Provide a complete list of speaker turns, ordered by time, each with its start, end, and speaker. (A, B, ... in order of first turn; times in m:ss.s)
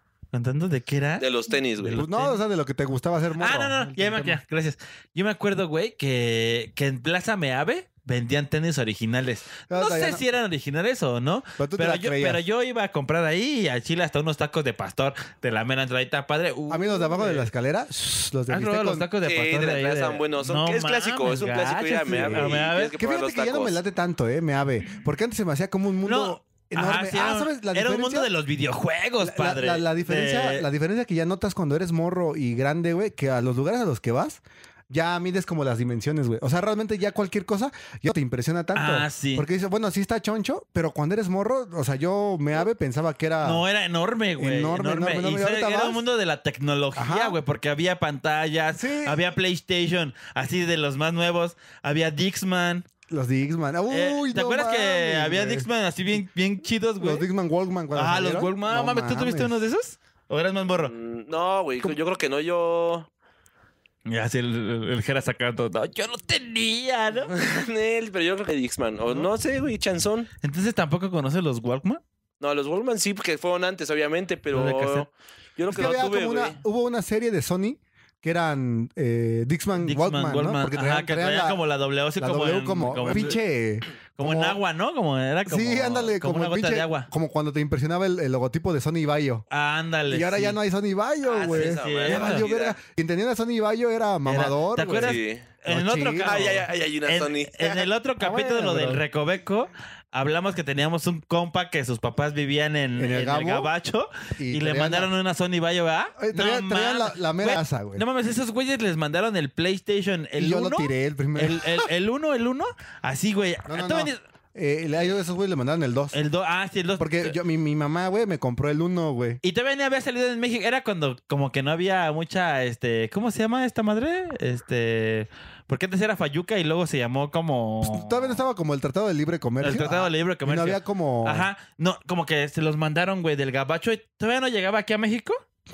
0:00.3-0:01.2 A
0:01.2-0:02.0 B
0:01.8-0:04.4 C
0:01.9-0:02.4 A
0:03.4-0:17.5 A
0:09.7-0:10.2 C
0:11.6-0:12.4 C
0:16.7-0:19.1 C
0:18.5-0:22.9 A
0:19.2-0:23.8 B
0:22.0-0:28.3 C
0:26.0-0:30.7 A
0:29.2-0:43.6 C
0:38.7-0:39.4 A
0:43.4-0:52.8 A
0:44.4-0:46.0 C
0:47.0-0:47.4 C
0:48.7-0:49.2 C
0:53.1-0:55.7 C
0:53.9-0:57.2 A
0:57.0-0:59.6 C
0:57.9-1:00.9 A
1:00.8-1:03.1 B
1:04.1-1:07.3 A
1:07.3-1:10.3 B
1:10.4-1:12.0 A
1:12.4-1:16.6 B
1:14.5-1:15.1 A
1:15.7-1:21.6 C
1:19.8-1:23.4 A
1:22.2-1:24.6 C
1:24.2-1:27.1 A
1:25.5-1:29.4 C
1:29.5-1:30.6 A
1:30.1-1:36.4 C
1:31.2-1:32.8 B
1:31.5-1:32.5 A
1:34.2-1:54.2 A
1:35.0-1:35.5 B
1:36.2-1:37.9 B
1:38.2-1:39.0 C
1:43.0-1:43.7 C
1:44.4-1:45.1 C
1:46.2-1:48.0 C
1:50.4-1:51.9 C
1:53.7-1:56.2 C
1:56.1-1:57.3 A
1:57.0-1:59.4 C
1:59.4-2:08.4 A
2:07.8-2:11.5 C
2:09.6-2:15.4 A